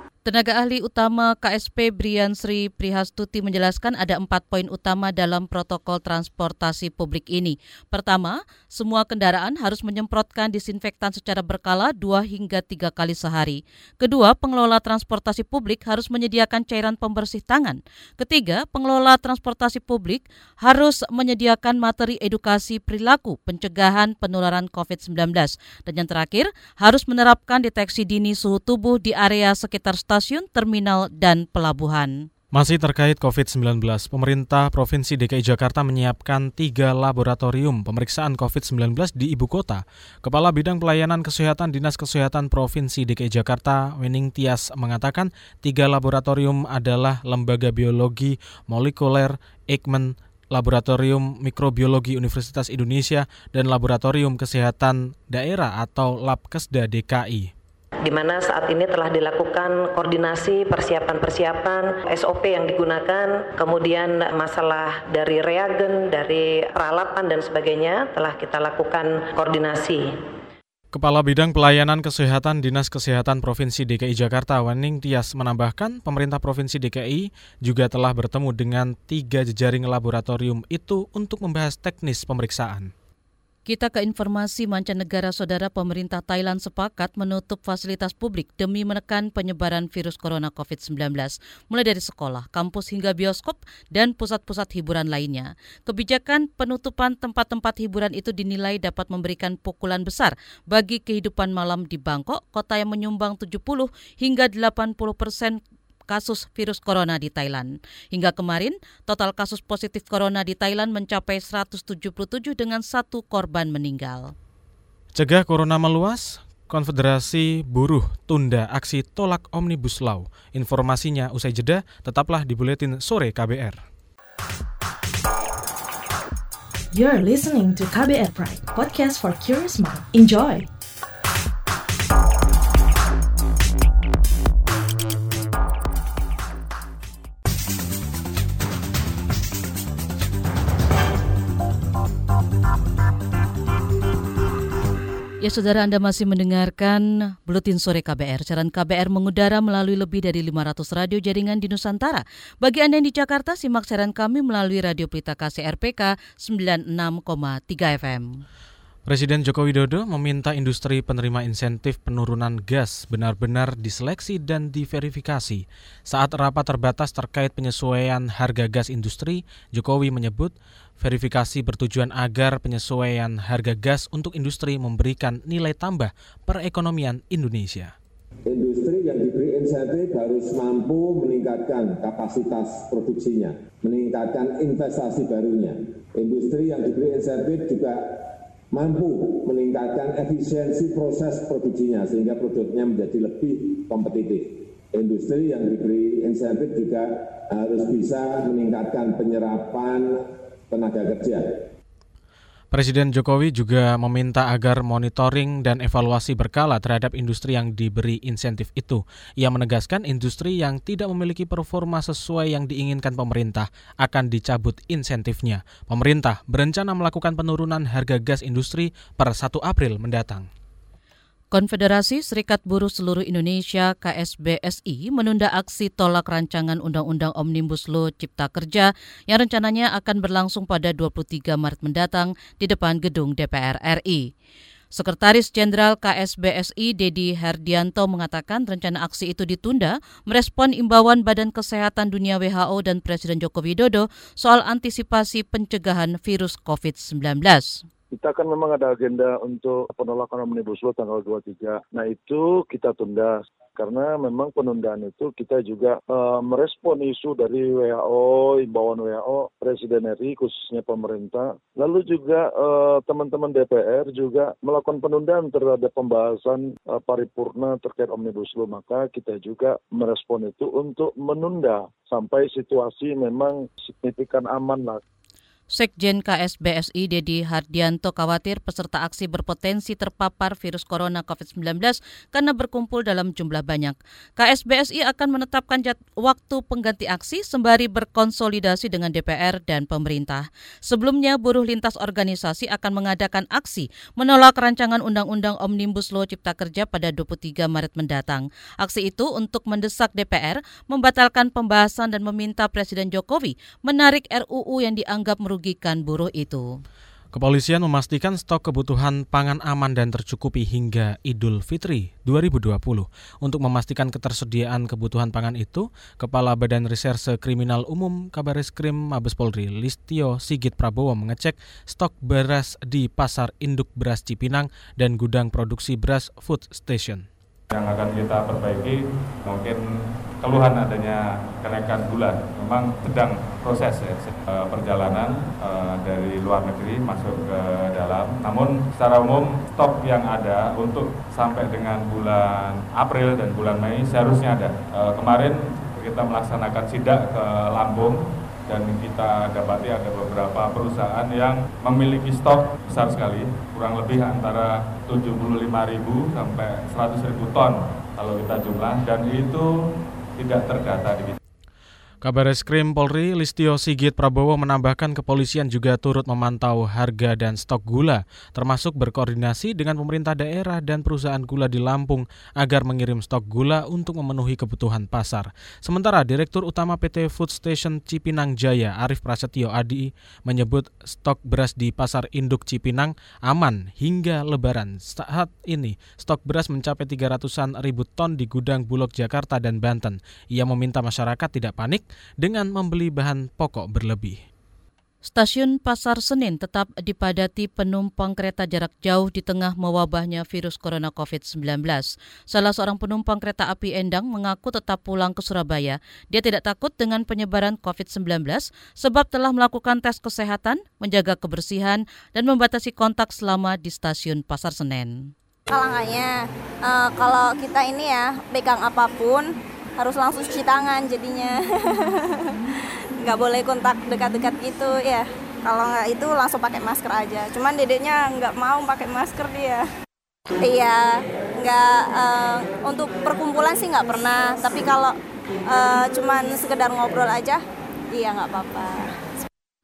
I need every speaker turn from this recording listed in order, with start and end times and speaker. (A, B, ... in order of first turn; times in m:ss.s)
0:00.2-0:32.2 A
0:32.5-0:57.5 B
0:58.0-1:10.1 C
1:10.9-1:22.9 B
1:23.7-1:45.6 A
1:46.1-1:54.3 A
1:55.1-2:03.8 B
2:06.9-2:10.7 D
2:25.4-2:38.3 A
2:39.1-2:57.9 B
2:58.4-3:08.2 E
3:08.7-3:20.1 E
3:20.7-3:21.5 E
3:22.7-3:40.5 B
3:41.5-3:54.3 A
3:54.9-4:07.8 A
4:08.1-4:35.0 F
4:35.7-5:06.6 A
5:07.3-5:27.2 B
5:27.7-5:29.8 G
5:30.4-5:59.7 G
6:00.4-6:01.4 G
6:02.2-6:34.4 B
6:35.2-6:55.3 A
6:55.7-6:59.4 H
7:00.0-7:02.5 H
7:03.2-7:09.8 H
7:10.6-7:15.1 H
7:15.7-7:17.6 H
7:18.1-7:19.1 H